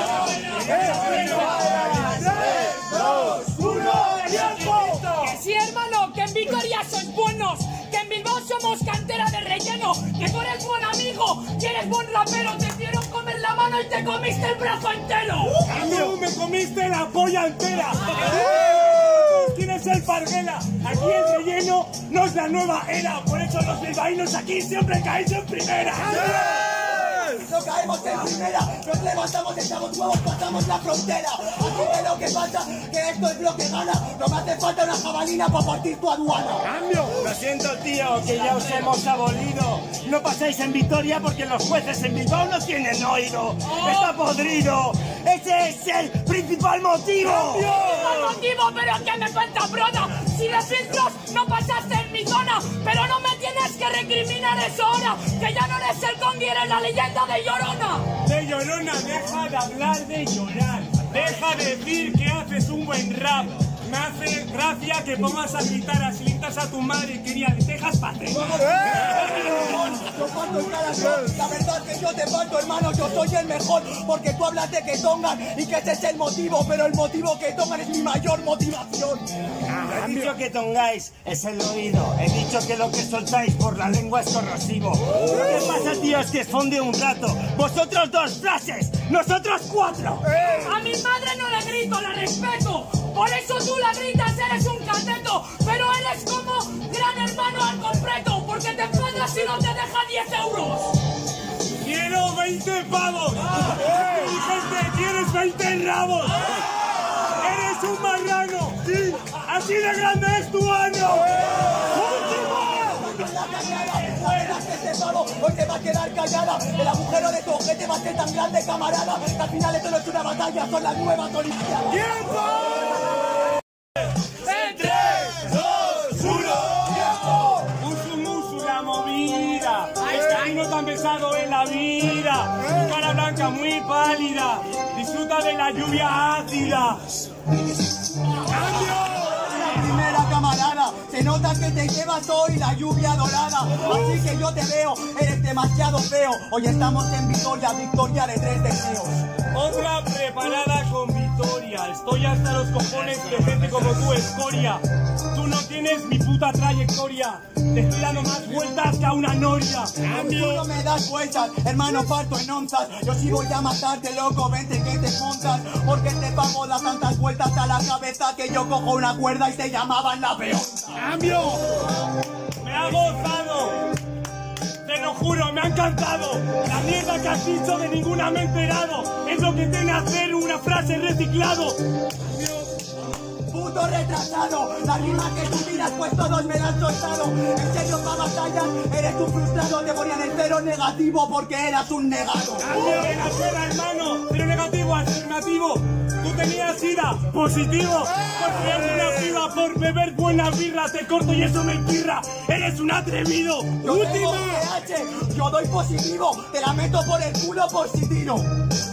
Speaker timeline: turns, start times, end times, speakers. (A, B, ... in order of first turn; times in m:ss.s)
0:00.5-0:05.1 A
0:01.1-0:02.2 B
0:05.1-0:15.7 B
0:15.6-0:26.5 A
0:27.1-0:36.7 C
0:36.7-0:47.8 D
0:47.3-0:58.2 B
0:47.8-0:48.3 A
0:58.2-1:09.1 A
1:08.6-1:19.2 C
1:19.7-1:30.3 D
1:30.3-1:41.0 B
1:41.8-1:46.6 A
1:47.3-1:52.5 A
1:51.9-2:02.1 C
2:02.1-2:02.7 A
2:04.4-2:17.1 A
2:18.6-2:29.2 C
2:29.5-2:40.1 A
2:33.0-2:33.9 D
2:40.0-2:51.2 C
2:52.6-2:53.8 A
2:54.8-3:01.8 A
3:03.5-3:12.7 C
3:12.6-3:24.6 A
3:23.8-3:28.5 C